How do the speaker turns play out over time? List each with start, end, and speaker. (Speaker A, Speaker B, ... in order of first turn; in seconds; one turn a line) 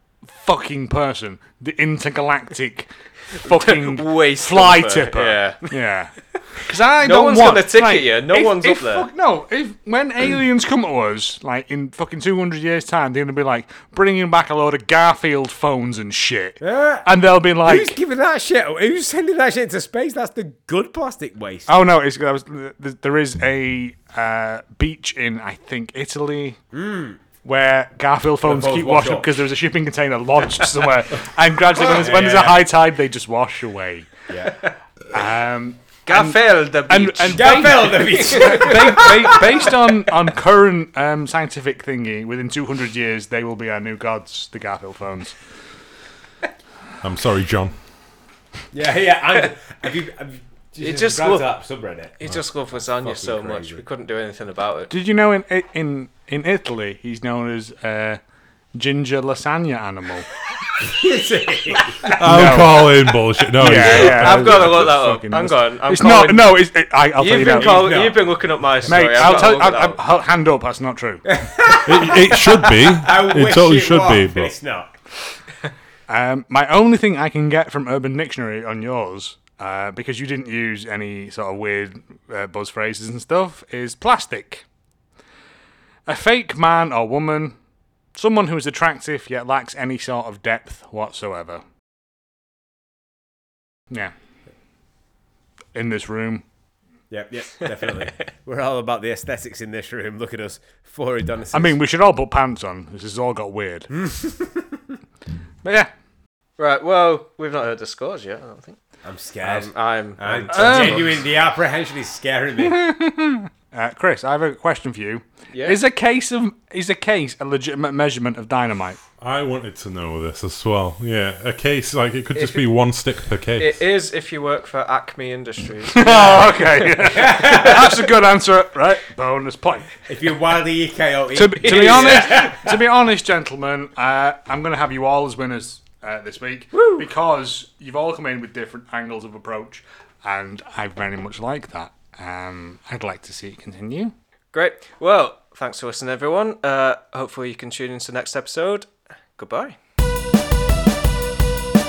Speaker A: 0.3-18.0
Speaker B: 3.6-5.7
Speaker B: 7.0-9.1
Speaker C: 16.6-17.1
Speaker C: 17.6-21.7
Speaker A: 21.7-26.6
Speaker C: 26.7-27.2
Speaker A: 27.4-34.1
Speaker C: 28.4-29.3
Speaker C: 31.8-32.6
Speaker C: 34.3-34.6
Speaker A: 35.1-45.4
Speaker B: 36.1-37.8
Speaker C: 37.3-39.6
Speaker B: 38.5-39.3
Speaker D: 47.0-47.7
Speaker C: 48.7-52.2
Speaker B: 50.8-51.5
Speaker B: 52.2-54.9
Speaker C: 52.9-53.8
Speaker A: 54.9-58.2
Speaker A: 58.8-60.3
Speaker C: 60.8-62.2
Speaker A: 62.0-62.9
Speaker D: 62.1-64.8
Speaker A: 63.5-68.0
Speaker B: 63.7-70.0
Speaker C: 67.5-68.3
Speaker A: 68.9-71.4
Speaker C: 69.0-69.3
Speaker C: 71.3-74.9
Speaker D: 71.7-74.5
Speaker A: 76.1-84.7
Speaker A: 86.1-87.6
Speaker A: 88.2-91.6
Speaker A: 95.8-96.4
Speaker C: 97.1-101.8
Speaker A: 101.5-103.9
Speaker C: 103.9-105.0
Speaker A: 105.6-105.9
Speaker B: 106.6-108.8
Speaker C: 109.0-112.8
Speaker B: 109.4-111.2
Speaker A: 110.5-111.2
Speaker A: 112.6-119.0
Speaker B: 115.5-115.8
Speaker D: 119.2-123.7
Speaker B: 122.3-122.6
Speaker B: 123.6-127.9
Speaker A: 125.9-129.9
Speaker C: 127.1-127.9
Speaker C: 130.1-132.8
Speaker A: 131.3-144.1
Speaker B: 131.6-132.5
Speaker B: 136.8-137.0
Speaker B: 144.5-149.8